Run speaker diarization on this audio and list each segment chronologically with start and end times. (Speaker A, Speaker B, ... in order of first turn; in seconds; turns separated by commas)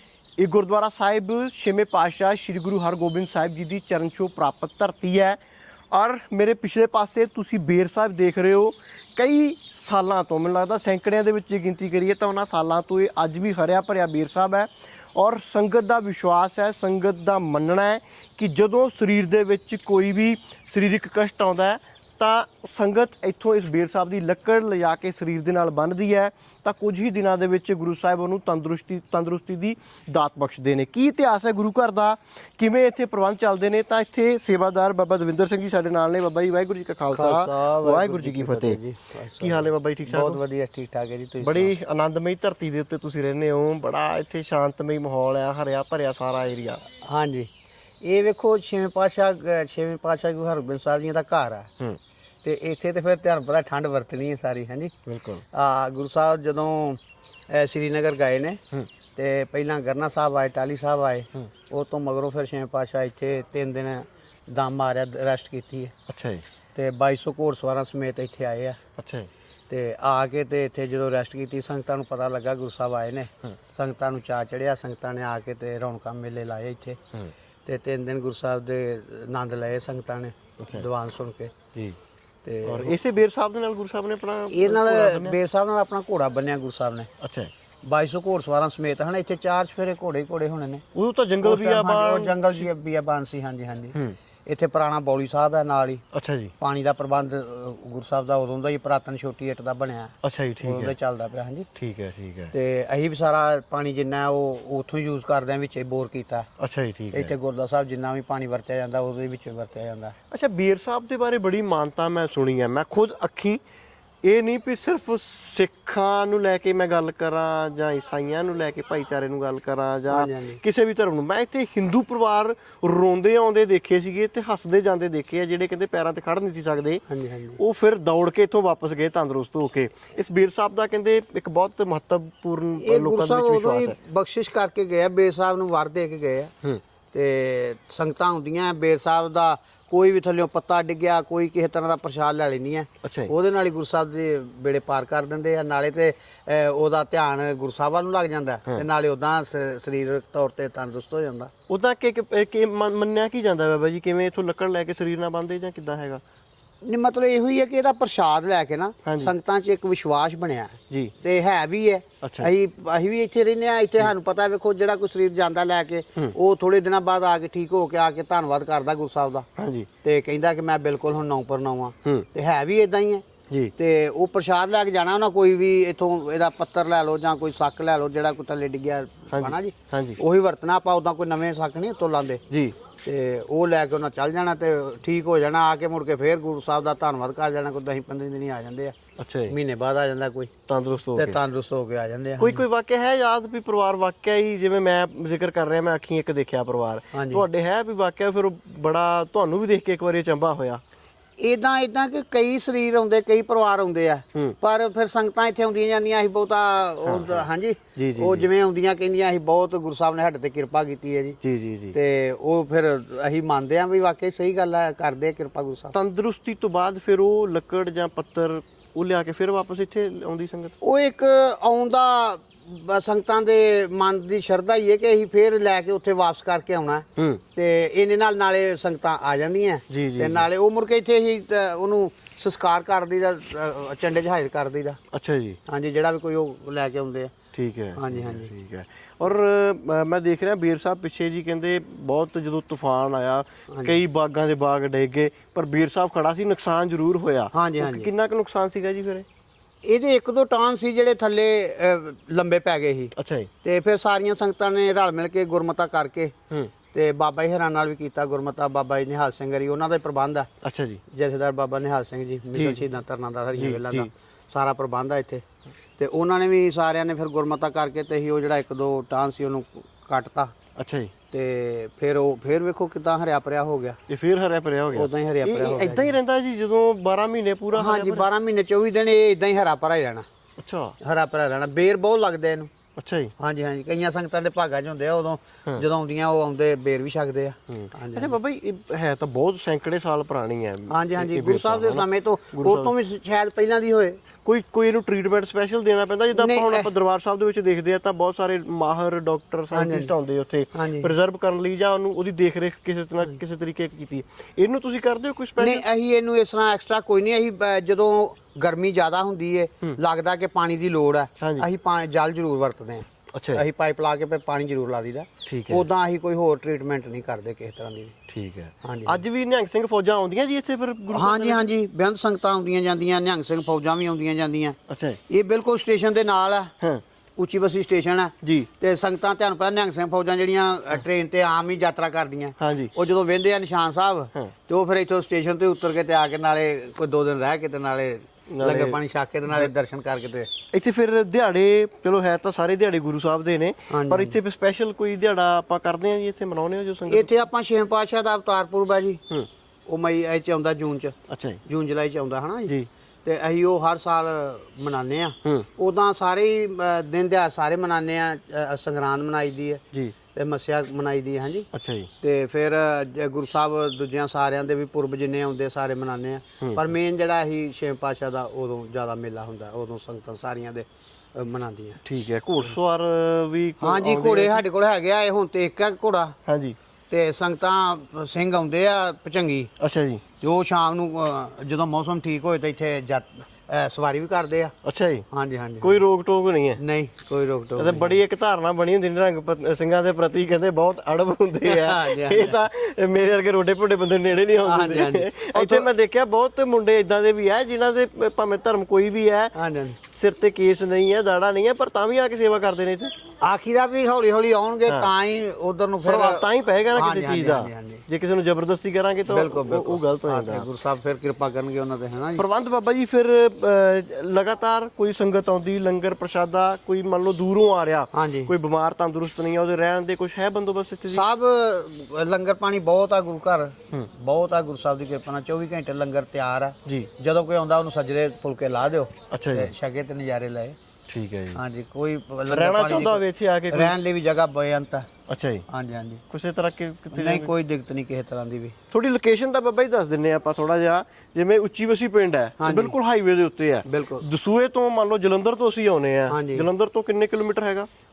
Speaker A: 0.4-5.4, Speaker A: 5.9-38.8, Speaker B: 37.1-41.7, Speaker A: 39.4-40.4, Speaker A: 41.4-46.8, Speaker B: 47.0-47.5, Speaker B: 48.0-51.7, Speaker B: 52.4-54.9, Speaker A: 55.1-55.4, Speaker B: 55.5-57.0, Speaker B: 57.5-58.6, Speaker B: 59.1-65.9, Speaker A: 66.1-66.4, Speaker B: 66.7-68.8, Speaker A: 69.0-69.3, Speaker B: 69.7-77.0, Speaker B: 77.7-81.5, Speaker A: 80.6-80.8, Speaker B: 82.4-83.0, Speaker A: 82.7-85.4, Speaker B: 84.5-87.1, Speaker A: 87.2-87.5, Speaker B: 87.8-90.8, Speaker A: 90.9-92.6, Speaker B: 91.4-96.0, Speaker A: 96.1-96.5, Speaker B: 96.6-101.7, Speaker A: 100.2-100.9, Speaker A: 101.7-102.5, Speaker B: 102.5-106.5, Speaker A: 106.6-107.3, Speaker B: 107.1-110.1, Speaker A: 110.3-113.6, Speaker A: 114.2-127.0, Speaker B: 120.1-120.6, Speaker B: 127.1-127.6, Speaker A: 127.6-134.0, Speaker B: 132.8-136.5, Speaker B: 137.1-151.5, Speaker A: 143.0-143.3, Speaker A: 151.7-156.2, Speaker B: 156.8-169.5, Speaker A: 159.0-159.3, Speaker A: 162.2-162.5, Speaker A: 169.6-169.9, Speaker B: 170.0-173.2, Speaker B: 173.8-182.4, Speaker A: 179.3-180.2, Speaker A: 182.5-182.8, Speaker B: 183.0-188.9, Speaker A: 189.2-189.5, Speaker B: 189.5-190.5, Speaker A: 190.7-191.4, Speaker B: 191.2-192.6, Speaker A: 192.4-200.8, Speaker B: 197.1-197.4, Speaker B: 201.4-211.4, Speaker A: 207.1-208.5, Speaker A: 211.4-211.9, Speaker B: 211.9-215.9, Speaker A: 215.9-220.7, Speaker B: 220.8-235.0, Speaker A: 227.2-227.4, Speaker A: 229.9-230.5, Speaker A: 235.1-235.6, Speaker B: 235.7-237.3, Speaker A: 237.5-249.2, Speaker B: 237.9-238.5, Speaker B: 243.7-244.0, Speaker B: 247.5-248.1, Speaker B: 249.8-256.3, Speaker A: 253.2-253.5, Speaker B: 256.9-260.5, Speaker A: 260.6-261.0, Speaker B: 261.1-265.4, Speaker A: 262.5-262.8, Speaker A: 263.6-264.1, Speaker B: 266.0-270.5, Speaker A: 270.8-271.1, Speaker B: 271.3-274.0, Speaker A: 274.1-278.3, Speaker B: 274.9-276.2, Speaker B: 277.7-280.2, Speaker A: 280.6-280.9, Speaker B: 281.0-282.7, Speaker A: 283.0-283.3, Speaker B: 283.4-288.4, Speaker A: 287.7-292.9, Speaker B: 290.9-294.2, Speaker A: 294.4-305.9, Speaker B: 296.3-296.9, Speaker B: 299.7-300.1, Speaker B: 300.7-301.1, Speaker B: 305.6-318.2, Speaker A: 311.4-311.6, Speaker A: 313.3-313.6, Speaker A: 315.4-315.9, Speaker A: 318.3-321.6, Speaker B: 318.8-319.2, Speaker B: 321.1-324.8, Speaker A: 324.9-325.2, Speaker B: 325.3-326.7, Speaker B: 327.4-340.5, Speaker A: 328.4-328.7, Speaker A: 332.6-332.9, Speaker A: 338.5-339.0, Speaker A: 340.7-347.3, Speaker B: 343.9-344.4, Speaker B: 347.1-349.2, Speaker B: 349.9-351.1, Speaker A: 351.3-351.6, Speaker B: 351.7-352.7, Speaker B: 353.2-359.8, Speaker B: 360.3-361.7, Speaker A: 361.7-362.1, Speaker B: 362.2-372.0, Speaker A: 366.6-366.9, Speaker A: 372.0-374.6, Speaker B: 373.8-376.4, Speaker A: 376.4-376.8, Speaker B: 377.1-379.7, Speaker A: 379.8-380.2, Speaker B: 380.4-384.7, Speaker A: 384.8-385.3, Speaker B: 385.3-386.0, Speaker A: 385.8-386.8, Speaker B: 386.8-388.2, Speaker A: 387.8-403.1, Speaker B: 391.6-392.6, Speaker B: 394.6-395.9, Speaker B: 399.5-400.0, Speaker B: 403.4-408.0, Speaker A: 406.0-410.7, Speaker B: 409.3-412.4, Speaker A: 412.4-421.2, Speaker B: 418.1-418.5, Speaker B: 421.1-430.8, Speaker A: 429.3-429.7, Speaker A: 431.1-431.6, Speaker B: 431.5-435.1, Speaker A: 432.5-433.9, Speaker A: 435.3-435.6, Speaker B: 435.7-436.2, Speaker A: 436.3-437.5, Speaker B: 437.1-438.7, Speaker A: 438.9-447.9, Speaker B: 442.6-443.0, Speaker B: 443.9-444.2, Speaker B: 446.3-446.7